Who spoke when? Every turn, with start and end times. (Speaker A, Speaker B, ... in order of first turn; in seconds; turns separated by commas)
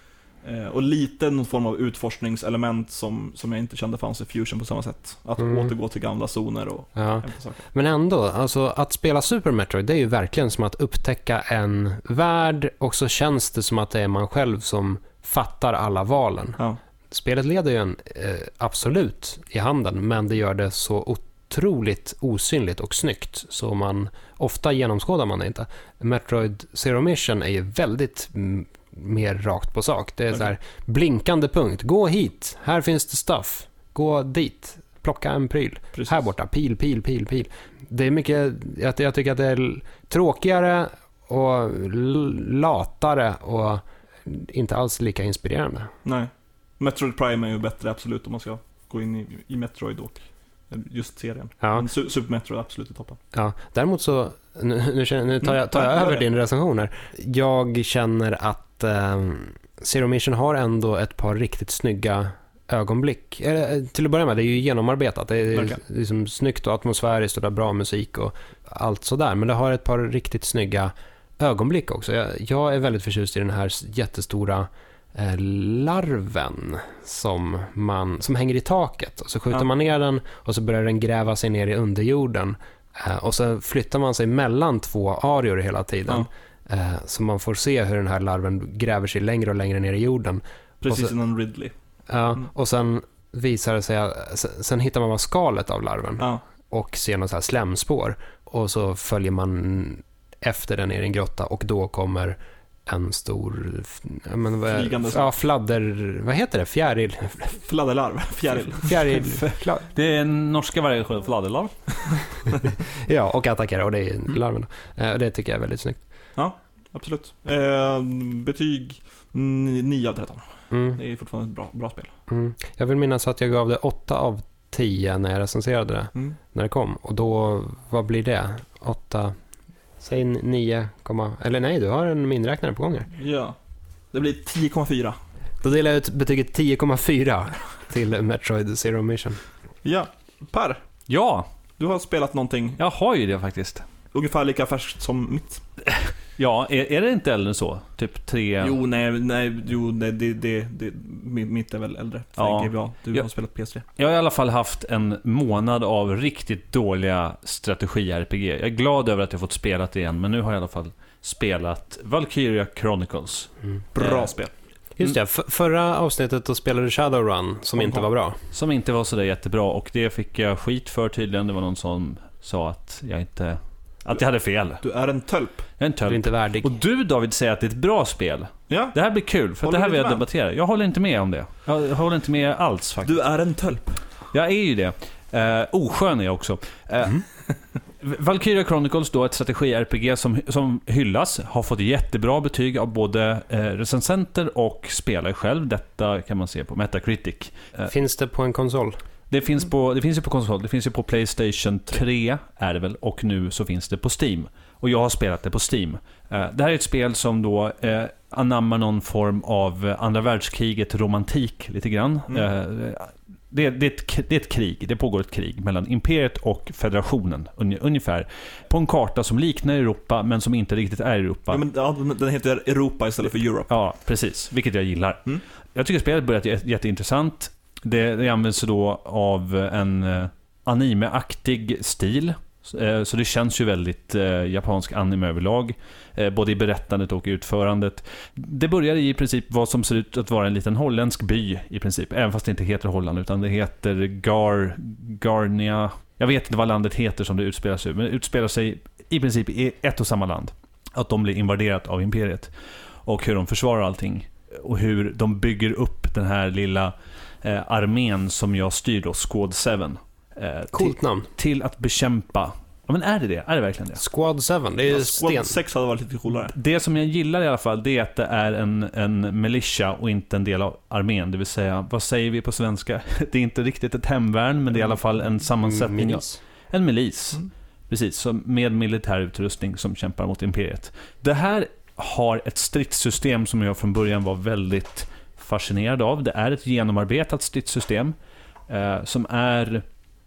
Speaker A: 0.4-7.6, Speaker B: 7.0-16.6, Speaker B: 17.1-45.9, Speaker A: 35.9-36.2, Speaker A: 46.0-53.2, Speaker B: 51.6-51.9, Speaker B: 53.3-91.1, Speaker A: 55.4-56.2, Speaker A: 65.5-65.8, Speaker A: 90.8-91.7, Speaker B: 92.1-107.6, Speaker A: 104.7-105.3, Speaker A: 107.5-109.6, Speaker B: 108.8-109.9, Speaker C: 109.8-112.2, Speaker B: 113.0-116.0, Speaker A: 116.3-122.1, Speaker B: 120.7-121.0, Speaker B: 122.3-129.3, Speaker B: 130.0-133.1, Speaker A: 133.2-133.5, Speaker A: 134.1-135.2, Speaker B: 135.6-139.4, Speaker A: 139.8-140.8, Speaker C: 141.1-141.5, Speaker A: 141.8-142.8, Speaker C: 142.8-143.8, Speaker A: 144.1-145.6, Speaker C: 145.9-148.8, Speaker A: 148.6-153.8, Speaker C: 152.4-153.3, Speaker C: 153.9-164.3, Speaker A: 163.9-164.5, Speaker B: 165.0-168.4, Speaker A: 167.8-168.1, Speaker C: 168.5-174.8, Speaker A: 174.8-175.7, Speaker C: 175.8-183.2, Speaker B: 176.1-176.7, Speaker A: 178.7-178.9, Speaker A: 179.5-180.2, Speaker A: 183.0-184.1, Speaker C: 184.3-187.2, Speaker C: 188.0-197.9, Speaker B: 197.9-199.0, Speaker C: 199.3-221.6, Speaker A: 221.5-223.7, Speaker C: 223.7-252.5, Speaker C: 253.0-264.0, Speaker B: 260.7-261.3, Speaker B: 264.0-265.5, Speaker A: 264.9-266.5, Speaker C: 266.5-288.1, Speaker B: 275.6-276.4, Speaker C: 288.7-289.8